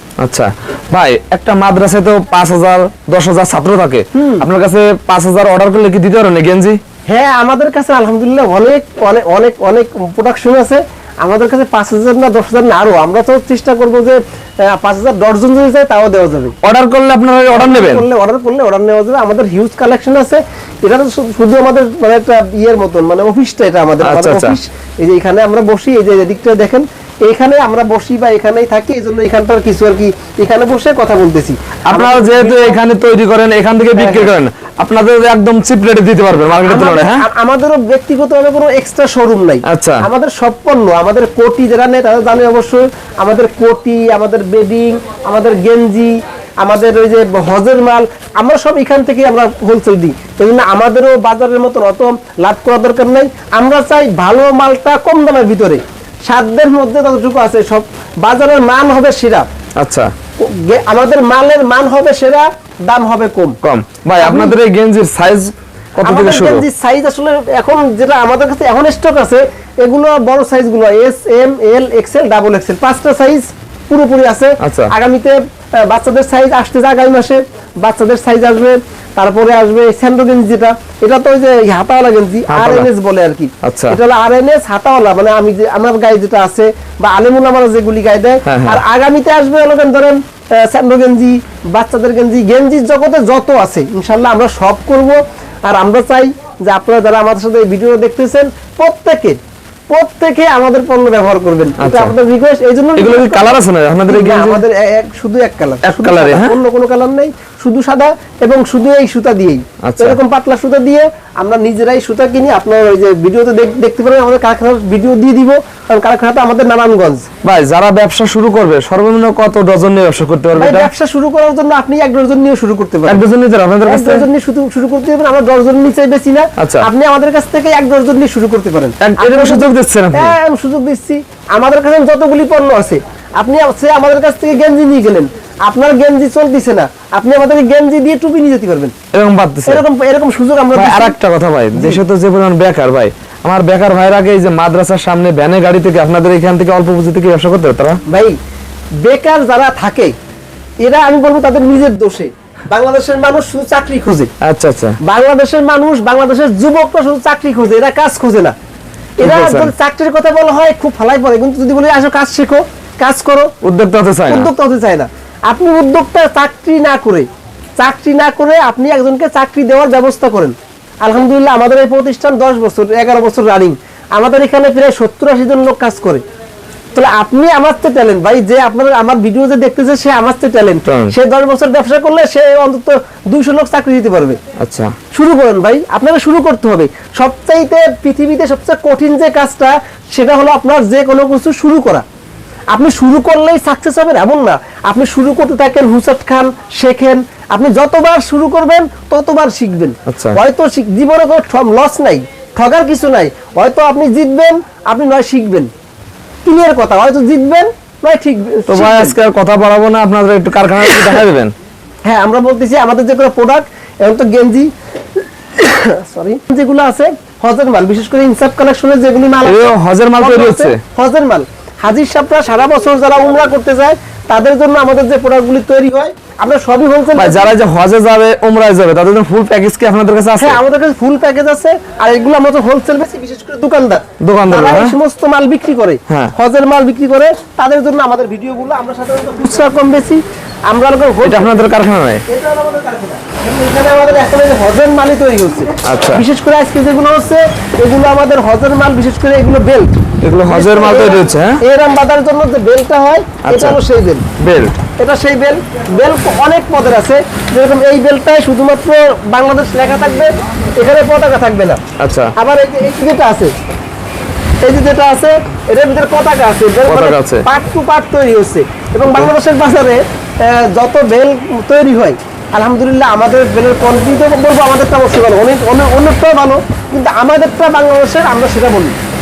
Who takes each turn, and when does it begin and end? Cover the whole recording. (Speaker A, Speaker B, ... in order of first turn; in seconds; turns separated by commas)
Speaker A: 0.2-6.8, Speaker B: 4.1-4.4, Speaker B: 7.1-16.6, Speaker A: 16.6-18.1, Speaker B: 17.5-32.8, Speaker A: 24.0-24.6, Speaker A: 31.9-37.2, Speaker B: 34.0-34.3, Speaker B: 36.6-59.4, Speaker A: 39.7-40.0, Speaker A: 59.8-60.1, Speaker B: 60.4-63.6, Speaker A: 63.6-66.7, Speaker B: 64.2-64.5, Speaker B: 66.0-99.4, Speaker A: 74.6-74.9, Speaker A: 82.5-82.9, Speaker A: 83.6-84.0, Speaker A: 88.5-88.8, Speaker B: 99.9-117.2, Speaker A: 101.8-102.1, Speaker A: 103.0-104.6, Speaker A: 105.8-106.6, Speaker A: 109.8-110.2, Speaker A: 117.4-120.9, Speaker B: 120.5-123.2, Speaker A: 123.0-124.2, Speaker B: 123.8-138.9, Speaker A: 126.6-126.9, Speaker A: 129.0-130.3, Speaker A: 139.1-139.8, Speaker B: 139.7-141.2, Speaker A: 140.7-148.0, Speaker B: 141.7-142.0, Speaker B: 148.1-148.3, Speaker B: 149.0-150.1, Speaker B: 150.8-154.3, Speaker A: 154.4-155.0, Speaker B: 155.0-158.5, Speaker B: 159.2-163.5, Speaker A: 159.2-159.7, Speaker A: 163.6-164.5, Speaker B: 164.3-167.3, Speaker B: 167.8-176.2, Speaker B: 176.9-184.4, Speaker A: 180.8-181.1, Speaker A: 184.6-184.9, Speaker B: 185.1-192.0, Speaker B: 192.7-205.7, Speaker A: 200.1-200.4, Speaker B: 206.4-209.1, Speaker A: 208.7-211.5, Speaker B: 212.1-214.7, Speaker B: 215.6-227.5, Speaker A: 219.4-220.8, Speaker A: 227.1-230.6, Speaker B: 230.4-241.5, Speaker A: 234.2-235.0, Speaker A: 241.2-242.2, Speaker B: 242.3-249.9, Speaker A: 245.8-246.2, Speaker A: 250.2-251.6, Speaker B: 250.5-254.2, Speaker A: 253.4-253.8, Speaker A: 254.4-254.7, Speaker B: 255.0-261.8, Speaker A: 262.0-262.3, Speaker B: 262.4-263.5, Speaker B: 264.6-278.9, Speaker A: 266.9-267.4, Speaker A: 269.1-269.3